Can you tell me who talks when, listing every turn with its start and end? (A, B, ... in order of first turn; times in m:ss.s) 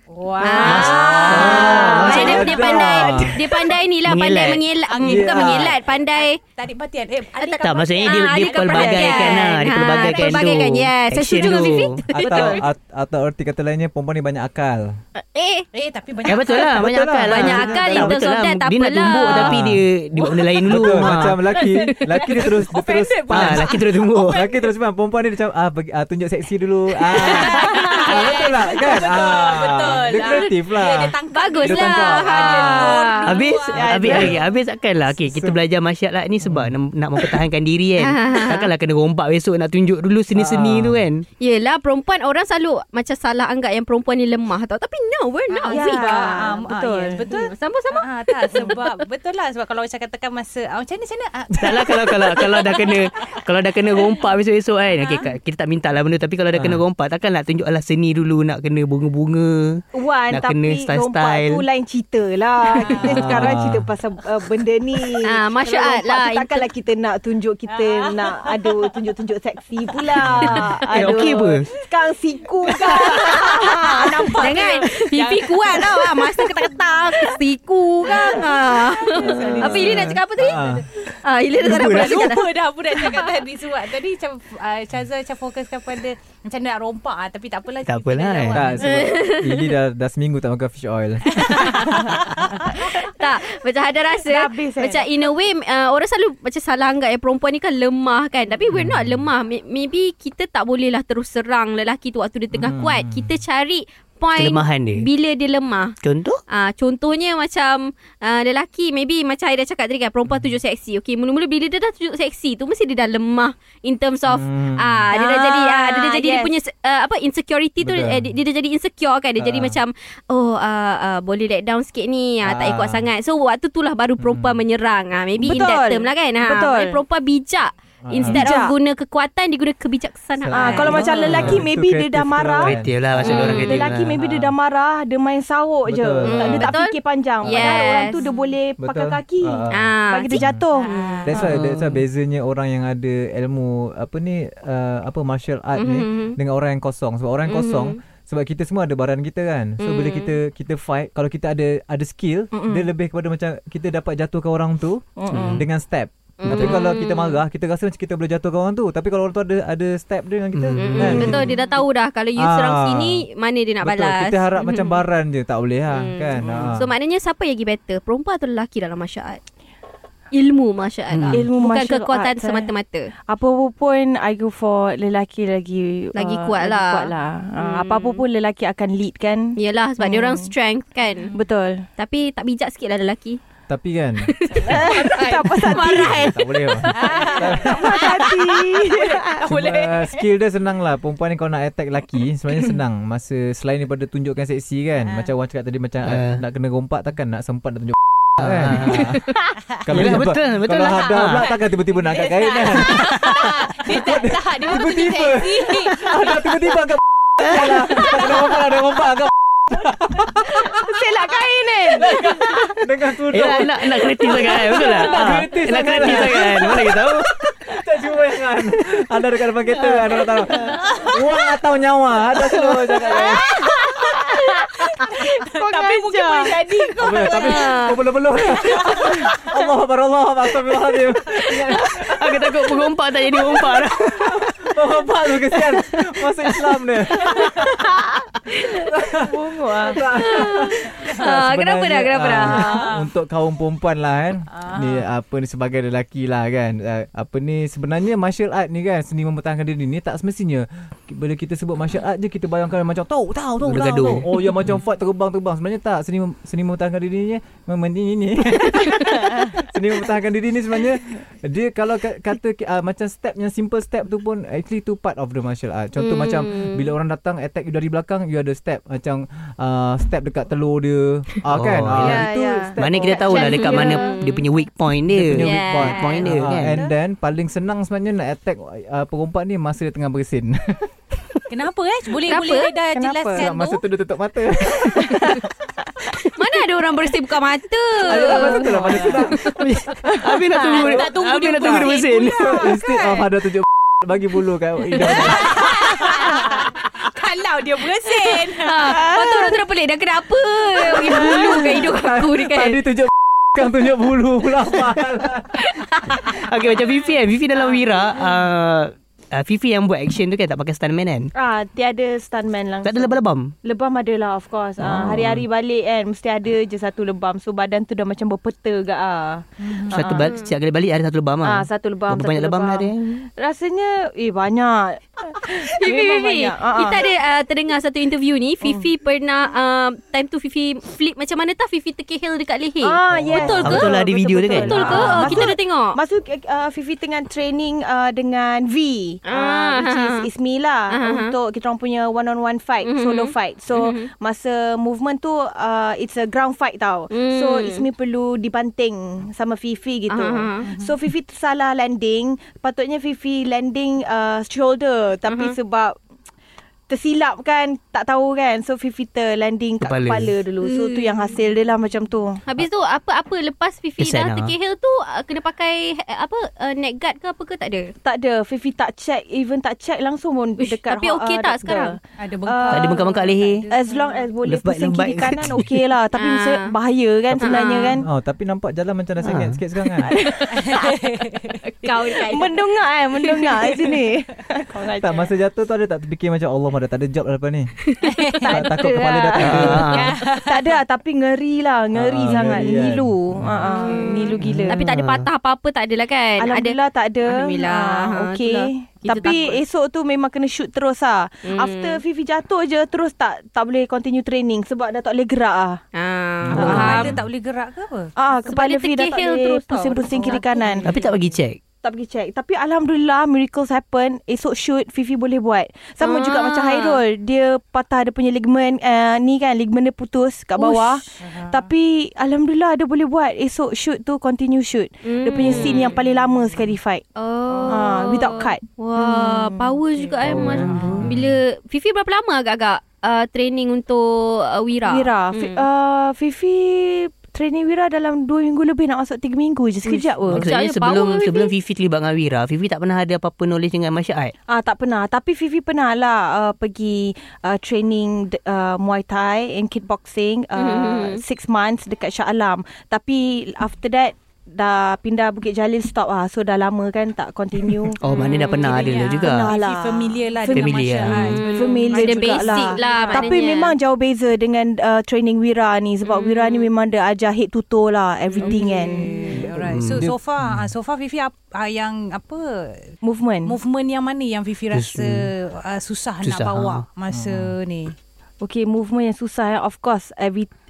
0:00.1-0:02.9 A
0:00.4-0:06.4 B
0:00.6-0:03.4 C
0:00.7-0:01.7 D
0:04.0-0:04.6 D
0:04.8-0:10.7 A
0:05.0-0:05.7 C
0:07.4-0:12.6 B
0:07.6-0:12.0 D
0:11.4-0:12.6 A
0:12.1-0:15.0 C
0:15.2-0:15.6 B
0:15.7-0:16.9 A
0:16.2-0:21.4 D
0:16.7-0:18.2 C
0:17.3-0:19.5 B
0:19.3-0:19.8 C
0:20.7-0:33.0 C
0:21.5-0:24.7 A
0:23.3-0:24.4 D
0:27.1-0:34.3 A
0:27.2-0:28.1 B
0:31.3-0:33.4 B
0:33.2-0:41.2 D
0:33.8-0:34.3 E
0:34.0-0:34.4 C
0:35.2-0:35.6 C
0:36.4-0:36.7 C
0:38.0-0:38.7 B
0:40.3-0:41.0 C
0:41.4-0:46.4 B
0:45.5-0:53.4 A
0:45.7-0:47.3 E
0:47.3-0:49.0 B
0:51.6-1:01.6 D
0:55.0-0:55.3 A
0:56.5-0:56.8 C
0:59.9-1:14.7 E
1:02.8-1:03.4 A
1:03.1-1:03.9 C
1:05.2-1:06.6 B
1:07.7-1:08.9 A
1:10.2-1:10.5 A
1:10.2-1:10.7 C
1:10.9-1:11.7 D
1:11.1-1:11.8 A
1:12.6-1:17.4 A
1:14.4-1:23.3 B
1:18.0-1:20.8 A
1:19.4-1:20.1 D
1:19.4-1:20.8 C
1:21.6-1:22.3 D
1:21.6-1:29.0 A
1:27.8-1:28.6 D
1:28.5-1:31.8 C
1:28.8-1:29.7 B
1:31.3-1:32.9 A
1:31.4-1:32.1 B
1:32.7-1:46.0 B
1:34.2-1:35.2 E
1:38.7-1:39.2 C
1:42.5-1:43.3 C
1:44.4-1:45.0 D
1:46.0-1:46.4 D
1:46.5-2:11.5 B
1:54.3-1:55.1 C
1:55.1-1:56.5 E
1:57.8-1:58.3 C
1:59.4-1:59.8 C
2:02.4-2:03.1 C
2:04.2-2:04.6 C
2:05.4-2:07.0 E
2:08.0-2:08.5 C
2:08.2-2:08.7 E
2:10.4-2:14.5 C
2:10.5-2:21.4 E
2:11.3-2:11.6 D
2:12.6-2:14.2 D
2:13.2-2:13.8 B
2:15.8-2:16.8 C
2:16.2-2:18.3 B
2:17.4-2:17.8 C
2:18.8-2:20.6 C
2:19.7-2:21.4 B
2:20.8-2:21.3 A
2:21.2-2:41.5 C
2:21.4-2:22.0 D
2:25.8-2:26.4 B
2:27.5-2:28.0 B
2:29.8-2:30.4 B
2:32.5-2:32.9 E
2:35.2-2:35.6 E
2:35.3-2:35.6 D
2:36.4-2:37.4 B
2:40.5-2:41.4 D
2:40.8-2:45.0 B
2:42.4-2:43.2 C
2:43.8-2:46.9 C
2:45.9-2:49.4 B
2:46.4-2:46.7 E
2:50.3-2:53.1 B
2:51.1-2:51.4 D
2:51.3-2:52.7 E
2:53.3-3:00.5 E
2:56.1-2:58.2 B
2:59.6-3:01.3 B
3:01.3-3:01.9 E
3:02.0-3:03.4 B
3:03.7-3:04.8 C
3:04.2-3:07.4 B
3:04.6-3:06.4 E
3:04.7-3:05.5 A
3:05.8-3:08.2 C
3:06.9-3:10.2 A
3:07.1-3:09.4 E
3:09.4-3:30.8 C
3:16.0-3:16.4 D
3:18.4-3:21.5 D
3:21.9-3:26.4 A
3:22.9-3:23.3 D
3:30.5-3:32.8 E
3:32.0-3:43.5 C
3:33.3-3:37.4 D
3:34.5-3:35.4 E
3:39.8-3:40.8 D
3:40.8-3:41.1 A
3:43.0-3:47.0 E
3:43.1-3:47.8 A
3:47.0-3:52.5 C
3:47.3-3:48.0 B
3:48.6-3:49.2 A
3:51.8-3:54.4 D
3:53.8-3:57.9 C
3:58.7-4:33.0 C
3:59.2-4:00.0 E
4:00.1-4:02.8 B
4:02.5-4:03.0 A
4:04.5-4:05.0 A
4:13.6-4:14.3 D
4:26.0-4:26.9 B
4:31.5-4:36.8 D
4:32.0-4:34.1 E
4:33.3-4:34.4 B
4:35.1-4:40.9 C
4:35.4-4:36.3 B
4:41.5-4:43.8 A
4:42.2-4:42.7 B
4:42.9-4:43.4 E
4:43.3-4:45.4 C
4:45.0-4:45.4 E
4:46.3-4:49.1 B
4:48.0-4:49.6 C
4:48.2-4:48.9 E
4:48.7-4:49.2 A
4:49.4-4:52.6 D
4:50.1-4:50.5 E
4:50.7-4:53.2 A
4:52.3-4:56.0 C
4:55.0-4:59.2 A
4:58.5-5:02.8 B
4:59.1-4:59.5 E
5:00.9-5:05.6 C
5:05.5-5:06.4 B
5:06.2-5:11.3 D
5:11.3-5:20.3 E
5:12.8-5:13.5 D
5:14.8-5:15.4 D
5:19.6-5:20.1 A
5:19.9-5:23.3 D
5:20.2-5:20.5 B
5:21.4-5:27.0 E
5:25.3-5:34.0 B
5:32.8-5:56.0 E
5:33.1-5:33.8 C
5:33.3-5:35.5 D
5:34.5-5:36.0 B
5:34.8-5:35.5 C
5:39.2-5:40.2 B
5:40.9-5:41.3 B
5:42.8-5:44.1 B
5:47.1-5:47.8 B
5:50.1-5:50.7 B
5:50.6-5:51.0 A
5:55.2-5:55.6 B
5:56.9-6:02.4 E
5:59.8-6:00.3 D
6:00.6-6:01.3 B
6:02.4-6:07.9 B
6:04.0-6:04.5 D
6:08.0-6:13.1 E
6:10.6-6:12.0 B
6:12.2-6:14.3 A
6:12.7-6:13.6 D
6:13.7-6:18.1 E
6:14.4-6:15.7 D
6:16.2-6:16.7 B
6:17.3-6:20.1 C
6:17.4-6:18.0 B
6:19.2-6:19.6 D
6:20.0-6:21.0 E
6:20.5-6:22.2 A
6:21.7-6:22.6 B
6:22.1-6:25.3 E
6:25.0-6:27.8 C
6:27.9-6:29.4 B
6:28.0-6:28.6 A
6:28.5-6:30.0 C
6:28.5-6:34.8 E
6:29.4-6:30.2 D
6:29.8-6:30.8 A
6:31.9-6:33.7 C
6:33.6-6:39.6 B
6:34.4-6:35.3 D
6:36.4-6:45.8 E
6:41.4-6:42.0 B
6:45.9-6:47.2 B
6:46.4-6:47.2 C
6:46.5-6:48.1 A
6:48.2-6:50.9 E
6:48.5-6:51.1 B
6:50.1-6:50.9 A
6:50.8-6:51.6 D
6:51.8-7:07.0 E
6:56.0-6:57.0 B
7:00.6-7:01.0 B
7:01.2-7:01.7 A
7:05.0-7:05.9 B
7:07.2-7:15.6 B
7:07.5-7:07.9 A
7:07.7-7:09.8 E
7:10.2-7:11.1 A
7:10.2-7:11.4 C
7:14.9-7:20.4 E
7:19.9-7:21.5 B
7:20.3-7:24.3 D
7:24.5-7:38.0 E
7:30.6-7:31.2 B
7:38.0-7:39.5 D
7:38.1-7:38.9 B
7:38.4-7:43.4 A
7:39.2-7:49.1 E
7:40.5-7:41.4 D
7:41.3-7:43.7 B
7:46.0-7:46.7 B
7:48.4-7:52.9 A
7:49.3-7:50.7 C
7:49.6-7:50.0 D
7:53.0-7:53.6 E
7:53.4-7:57.9 A
7:54.7-7:55.3 D
7:56.2-7:56.8 D
7:57.1-7:57.5 C
7:58.4-8:00.5 E